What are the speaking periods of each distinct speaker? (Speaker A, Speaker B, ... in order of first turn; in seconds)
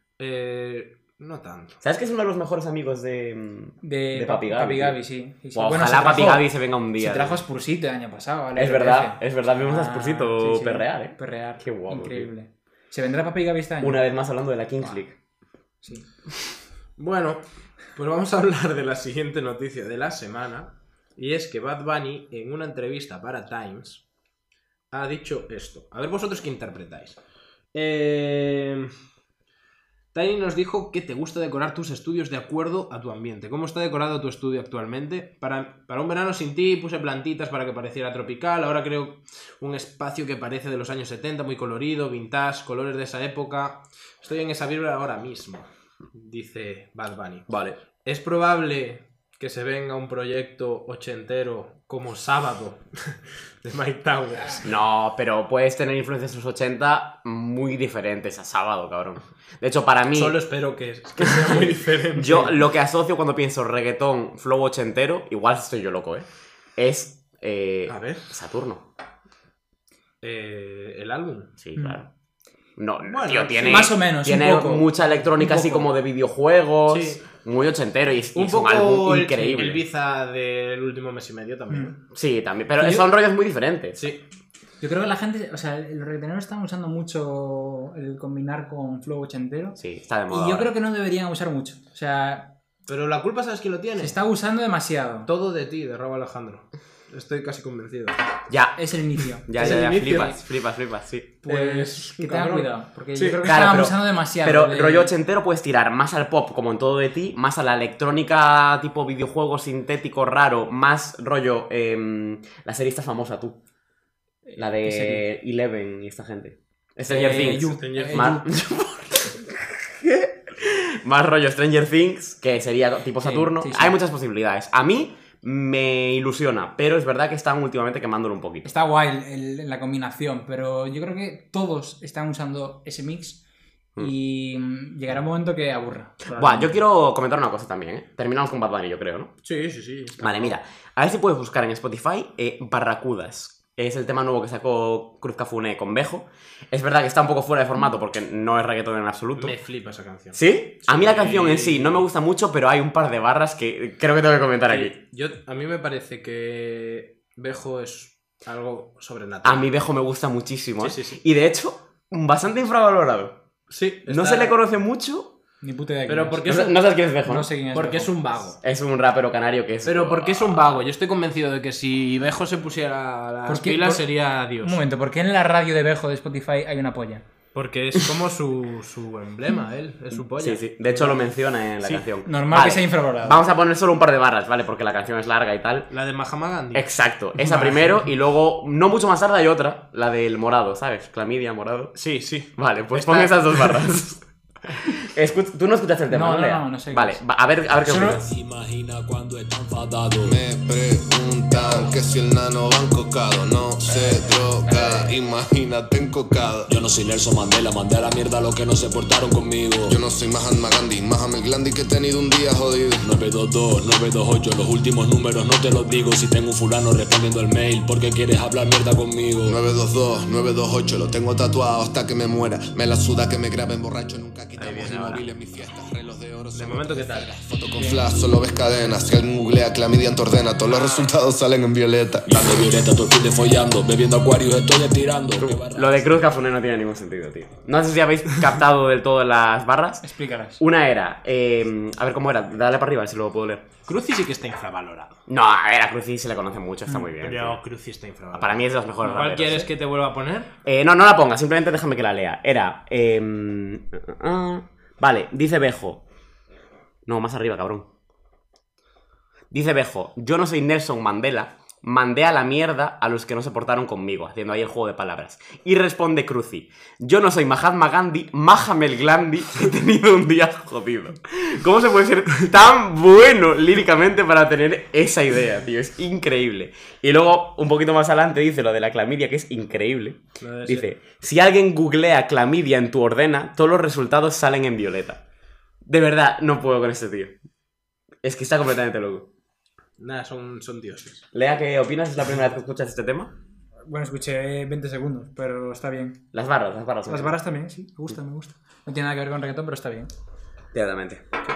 Speaker A: 0.2-1.8, 17.0-24.0, 24.9-27.2, 27.7-28.9, 30.1-47.5, 48.0-54.7, 60.1-62.6, 67.9-68.3, 70.2-71.5, 73.1-73.9, 76.9-77.2, 78.3-82.0, 84.0-84.2, 92.9-94.2, 95.3-98.2, 99.5-100.4, 101.5-103.4, 117.3-118.4, 139.4-140.6, 149.4-152.1, 154.7-159.7, 160.8-161.2, 163.7-164.6, 166.1-166.8, 167.7-168.6, 169.8-174.8, 177.5-182.1, 185.9-188.0, 191.9-193.8, 224.6-225.2, 226.5-227.3, 243.8-245.2, 247.2-250.5, 280.4-280.9, 290.0-291.3
Speaker B: 1.8-5.0, 5.5-7.4, 8.6-12.3, 13.8-15.2, 47.5-47.8, 54.6-60.4, 61.2-66.3, 66.8-68.9, 71.6-72.1, 72.8-79.8, 82.1-84.1, 89.8-90.7, 98.5-98.8, 99.3-101.3, 103.4-113.6, 114.6-128.7, 136.3-139.3, 140.2-149.6, 150.3-154.9, 159.4-163.4, 164.1-165.3, 166.5-167.5, 168.6-170.8, 180.4-185.9, 186.7-198.3, 235.4-243.7, 245.3-247.6, 248.3-249.7, 250.7-256.0, 257.1-257.9, 259.5-285.2, 285.9-287.3, 288.2-289.3, 291.3-293.3, 296.3-297.4, 300.7-301.2
Speaker C: 3.8-6.5, 7.0-14.0, 15.8-16.1, 73.7-75.9, 84.8-89.8, 90.3-92.5, 94.0-95.3, 98.8-100.3, 101.5-105.1, 114.5-115.2, 117.1-118.5, 123.2-124.0, 128.6-133.4, 134.0-136.8, 165.6-166.5, 167.3-168.1, 173.5-177.3, 182.3-183.4, 196.1-197.2, 197.8-198.2, 227.8-228.0, 240.0-240.6, 293.9-296.2, 297.1-300.1
Speaker D: 198.2-200.4, 206.7-210.0, 213.0-219.6, 232.3-236.2
Speaker E: 200.2-206.7, 209.9-213.1, 219.4-232.8